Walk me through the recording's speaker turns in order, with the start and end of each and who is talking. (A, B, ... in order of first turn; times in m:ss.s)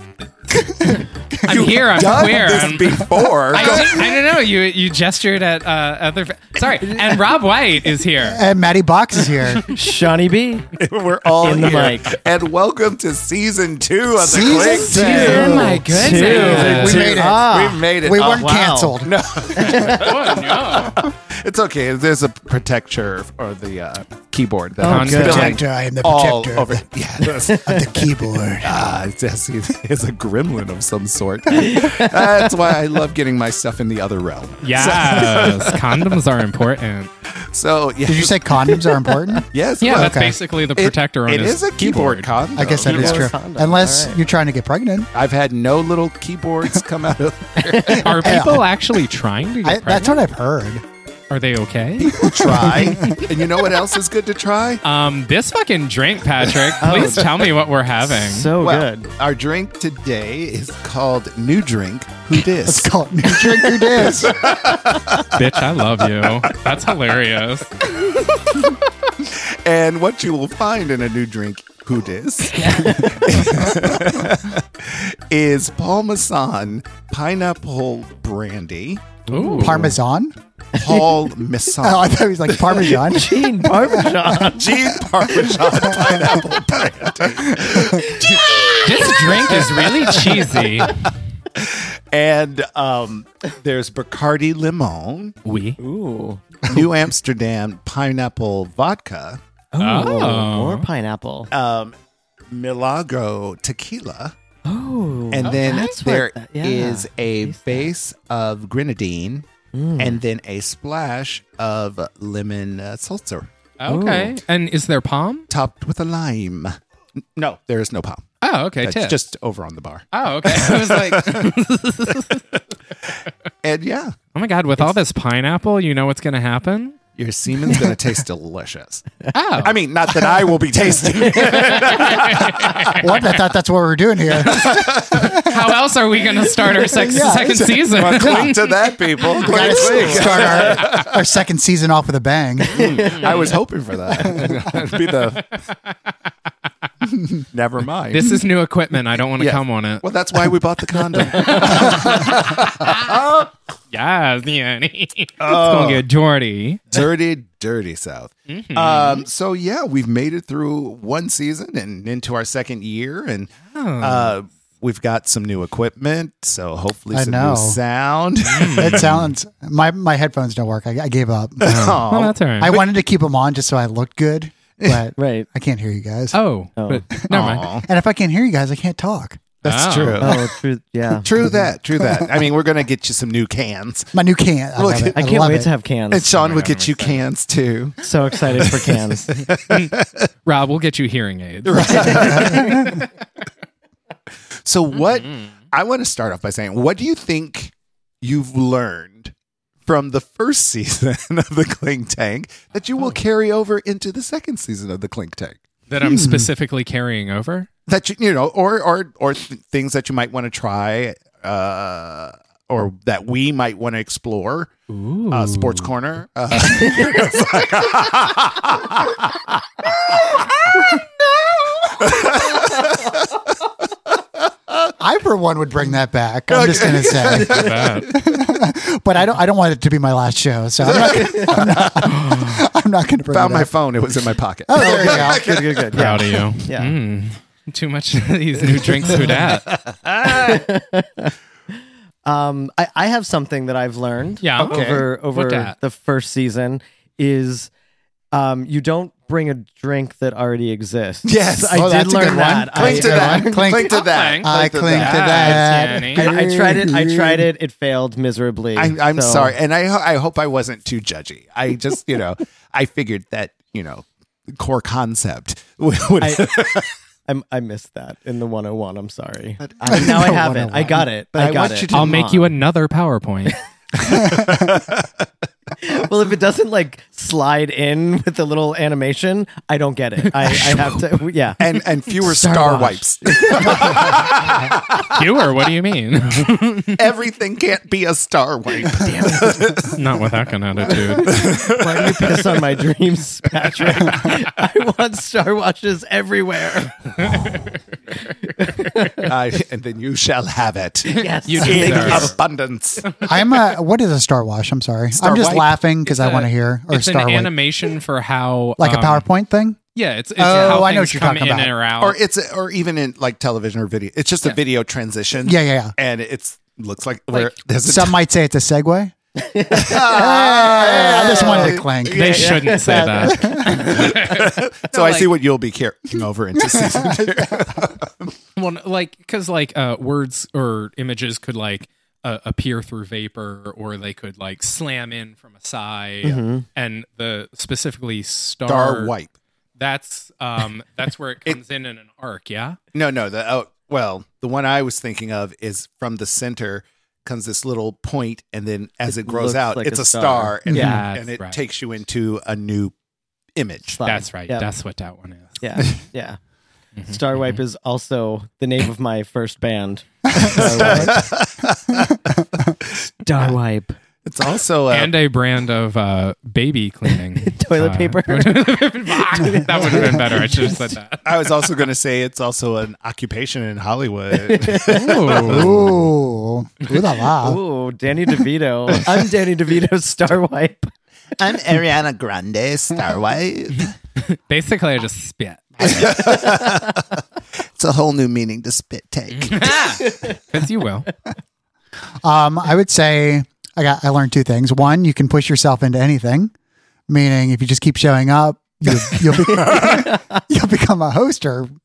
0:00.6-0:01.6 A
0:01.3-0:08.4 B
0:01.3-0:04.1 C
0:03.2-0:04.0 A
0:08.2-0:09.7 A
0:09.7-0:10.7 D
0:10.8-0:27.9 C
0:11.4-0:12.1 D
0:14.2-0:19.2 A
0:14.3-0:17.2 B
0:14.8-0:19.0 D
0:19.6-0:20.2 D
0:19.6-0:21.0 B
0:24.8-0:25.6 D
0:24.8-0:25.6 B
0:25.1-0:28.8 A
0:27.4-0:27.8 D
0:28.6-0:36.2 C
0:31.6-0:32.5 D
0:34.6-0:37.1 B
0:37.3-0:38.4 C
0:38.0-0:40.4 A
0:39.1-0:39.4 D
0:39.5-0:43.3 C
0:39.8-0:42.5 B
0:42.6-0:45.1 A
0:42.7-0:44.2 D
0:45.1-0:48.4 C
0:47.6-0:48.2 D
0:47.9-0:50.2 B
0:48.1-0:48.7 A
0:49.6-0:50.8 A
0:51.3-0:53.2 B
0:52.0-0:54.8 C
0:52.2-0:53.2 A
0:54.8-0:58.5 B
0:56.8-0:57.5 D
0:58.1-0:59.1 D
0:58.6-1:06.8 C
1:02.4-1:04.4 A
1:05.2-1:07.8 B
1:09.2-1:19.2 C
1:12.5-1:13.3 D
1:19.3-1:20.0 D
1:19.3-1:19.9 B
1:19.5-1:20.3 A
1:20.8-1:21.2 D
1:20.8-1:23.1 C
1:21.8-1:24.3 A
1:22.8-1:24.8 D
1:24.3-1:28.8 C
1:25.3-1:26.4 A
1:27.3-1:28.0 A
1:27.8-1:30.9 D
1:28.8-1:31.1 B
1:29.5-1:30.9 C
1:31.5-1:35.4 C
1:35.4-1:35.8 B
1:35.8-1:36.7 D
1:36.6-1:39.4 C
1:39.7-1:41.5 D
1:39.8-1:40.9 B
1:41.5-1:42.0 C
1:42.5-1:44.3 C
1:44.6-1:47.9 D
1:45.3-1:49.4 C
1:45.4-1:45.8 B
1:49.7-1:50.2 D
1:50.0-1:53.5 C
1:53.8-1:55.5 B
1:53.9-1:54.4 D
1:55.5-1:58.2 C
1:58.4-1:59.2 B
1:58.8-2:01.5 C
2:00.1-2:02.4 B
2:03.6-2:04.2 C
2:04.4-2:07.0 B
2:07.2-2:13.1 C
2:09.3-2:09.7 B
2:11.0-2:12.0 D
2:11.3-2:13.4 B
2:13.0-2:15.6 A
2:14.3-2:18.8 B
2:14.4-2:15.4 C
2:16.7-2:18.4 A
2:17.9-2:21.2 C
2:19.2-2:20.8 D
2:19.4-2:23.2 A
2:22.7-2:25.6 C
2:23.2-2:23.5 B
2:25.4-2:25.9 B
2:27.4-2:28.4 C
2:28.1-2:30.5 B
2:29.4-2:33.5 C
2:31.1-2:33.1 B
2:33.9-2:37.0 B
2:35.4-2:36.0 C
2:36.9-2:49.3 C
2:38.5-2:39.2 B
2:43.7-2:44.4 B
2:47.1-2:47.8 A
2:48.4-2:49.1 B
2:48.8-2:52.0 A
2:51.6-2:52.8 C
2:51.6-2:52.8 B
2:52.6-2:56.4 A
2:54.8-2:55.1 C
2:55.2-2:55.5 D
2:56.3-2:57.7 B
2:56.8-2:57.0 D
2:57.2-2:59.4 A
2:57.3-2:57.9 C
2:59.6-3:00.4 C
2:59.6-3:00.3 B
3:00.2-3:01.6 D
3:01.1-3:04.1 C
3:01.4-3:02.4 A
3:04.1-3:05.7 A
3:04.8-3:05.3 C
3:05.1-3:06.3 D
3:06.1-3:10.3 C
3:06.3-3:07.2 B
3:08.0-3:09.4 D
3:09.7-3:13.0 B
3:11.6-3:13.1 C
3:12.2-3:13.0 A
3:14.6-3:19.3 C
3:15.0-3:15.3 B
3:19.8-3:25.6 C
3:25.9-3:27.7 B
3:26.0-3:26.5 A
3:27.9-3:34.7 C
3:34.9-3:35.9 B
3:35.3-3:40.9 C
3:37.0-3:37.4 D
3:41.9-3:43.3 C
3:45.0-3:53.7 A
3:46.5-3:48.2 C
3:47.2-3:48.1 B
3:50.9-3:52.5 C
3:53.3-3:56.1 C
3:54.7-3:55.5 A
3:54.8-3:56.9 D
3:55.9-3:59.8 B
3:59.1-3:59.4 D
3:59.7-4:00.6 C
4:00.2-4:01.3 D
4:02.2-4:07.7 D
4:04.4-4:05.8 B
4:04.6-4:05.0 C
4:08.3-4:14.0 D
4:11.2-4:11.9 C
4:11.7-4:17.5 A
4:12.7-4:16.1 C
4:14.0-4:16.2 B
4:16.2-4:19.5 D
4:18.8-4:26.9 C
4:26.2-4:26.5 D
4:27.2-4:32.5 D
4:29.6-4:30.4 C
4:29.9-4:31.1 A
4:31.3-4:32.4 C
4:31.9-4:33.6 B
4:34.0-4:35.2 C
4:34.1-4:34.8 A
4:35.8-4:44.2 D
4:40.4-4:41.1 B
4:41.6-4:45.2 C
4:45.0-4:47.0 B
4:46.9-4:50.0 C
4:48.8-4:49.7 D
4:49.9-4:51.5 B
4:51.1-4:52.8 C
4:51.5-4:57.5 D
4:57.2-4:57.8 B
4:58.6-4:59.3 D
4:58.7-4:59.1 B
4:59.2-5:03.6 C
5:01.1-5:02.4 D
5:01.2-5:02.3 B
5:03.2-5:07.6 A
5:05.1-5:05.7 C
5:06.0-5:09.3 B
5:08.8-5:09.8 A
5:09.9-5:12.2 B
5:10.4-5:11.7 A
5:10.5-5:10.9 D
5:12.0-5:18.2 C
5:15.4-5:16.0 A
5:17.8-5:19.1 A
5:19.4-5:20.2 D
5:19.7-5:23.1 C
5:19.8-5:22.4 A
5:20.8-5:21.9 D
5:22.0-5:25.3 B
5:22.4-5:23.7 D
5:23.2-5:23.9 A
5:23.7-5:28.4 C
5:26.6-5:27.9 A
5:28.6-5:39.2 B
5:36.2-5:36.6 D
5:38.7-5:39.3 C
5:39.8-5:42.8 B
5:42.9-5:52.9 C
5:49.1-5:51.0 D
5:50.7-5:51.6 B
5:53.6-5:54.0 C
5:53.9-5:54.7 D
5:54.0-5:55.9 B
5:55.6-5:56.4 D
5:57.0-5:57.6 B
5:57.1-6:01.3 D
6:00.4-6:02.9 C
6:03.2-6:04.0 D
6:04.2-6:05.1 C
6:04.9-6:11.5 B
6:07.4-6:10.9 D
6:11.2-6:16.0 C
6:14.5-6:15.2 D
6:14.9-6:15.7 B
6:15.3-6:17.6 A
6:17.4-6:20.9 D
6:21.4-6:23.9 C
6:24.2-6:26.2 B
6:25.8-6:27.2 C
6:26.2-6:26.9 D
6:27.7-6:29.8 C
6:29.3-6:31.1 B
6:29.8-6:30.4 D
6:32.2-6:36.5 A
6:37.1-6:41.7 A
6:39.4-6:40.4 D